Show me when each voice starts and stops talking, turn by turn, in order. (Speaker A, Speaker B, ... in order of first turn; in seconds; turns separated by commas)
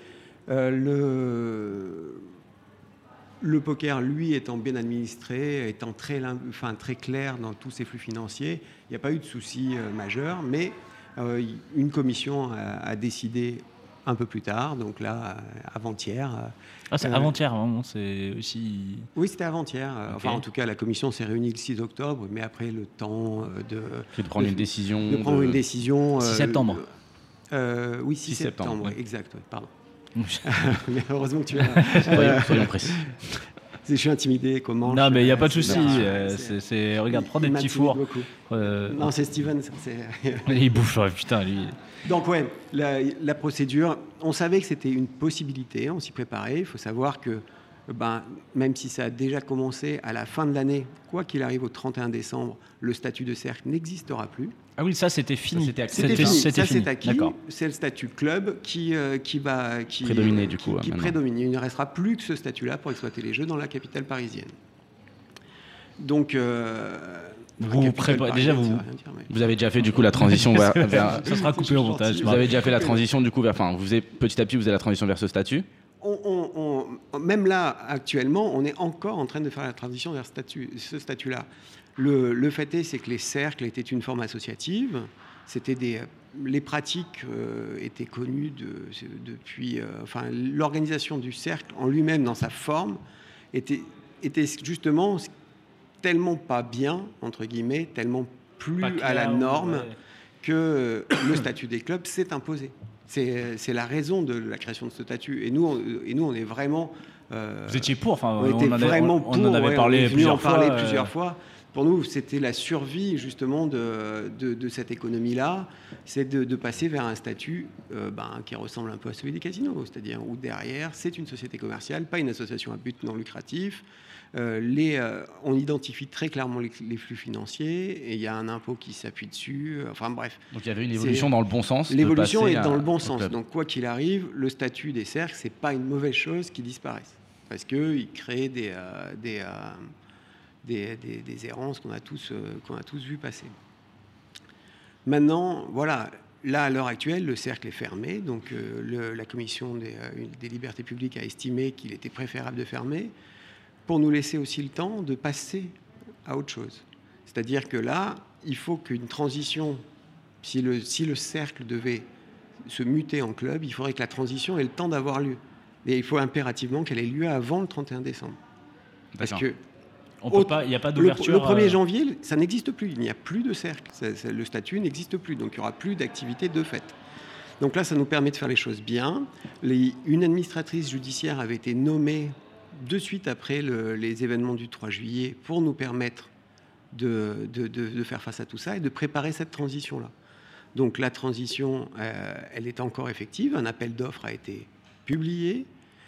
Speaker A: 0.5-2.3, Speaker A: 3.4-17.4, Speaker B: 16.9-19.1, Speaker A: 19.1-26.9, Speaker C: 24.2-25.6, Speaker B: 26.2-26.8, Speaker A: 27.5-29.7, Speaker C: 28.3-29.0, Speaker B: 30.2-30.5, Speaker A: 30.4-33.2, Speaker B: 31.8-32.4, Speaker C: 31.9-33.2, Speaker A: 33.8-40.8, Speaker B: 34.9-39.1, Speaker C: 35.6-36.1, Speaker B: 40.5-41.8, Speaker A: 42.0-54.6, Speaker B: 54.8-57.3, Speaker C: 55.5-56.4, Speaker A: 55.9-64.5, Speaker C: 60.0-61.2, Speaker A: 66.0-69.3, Speaker B: 67.6-68.8, Speaker C: 69.3-71.3, Speaker B: 70.0-72.5, Speaker A: 70.8-73.0, Speaker C: 72.2-75.7, Speaker A: 76.0-93.0, Speaker A: 93.5-95.3, Speaker A: 96.0-130.4, Speaker B: 98.8-100.0, Speaker B: 107.7-111.1, Speaker C: 130.5-133.3, Speaker A: 130.9-131.3, Speaker A: 131.9-139.9, Speaker A: 140.6-143.5, Speaker A: 145.1-153.1, Speaker A: 153.9-159.8, Speaker A: 160.4-162.1, Speaker A: 162.6-168.4, Speaker C: 169.2-169.4, Speaker A: 169.2-169.6, Speaker B: 170.2-171.8, Speaker A: 170.3-177.0, Speaker A: 177.6-186.3, Speaker A: 186.9-190.1, Speaker A: 190.7-195.7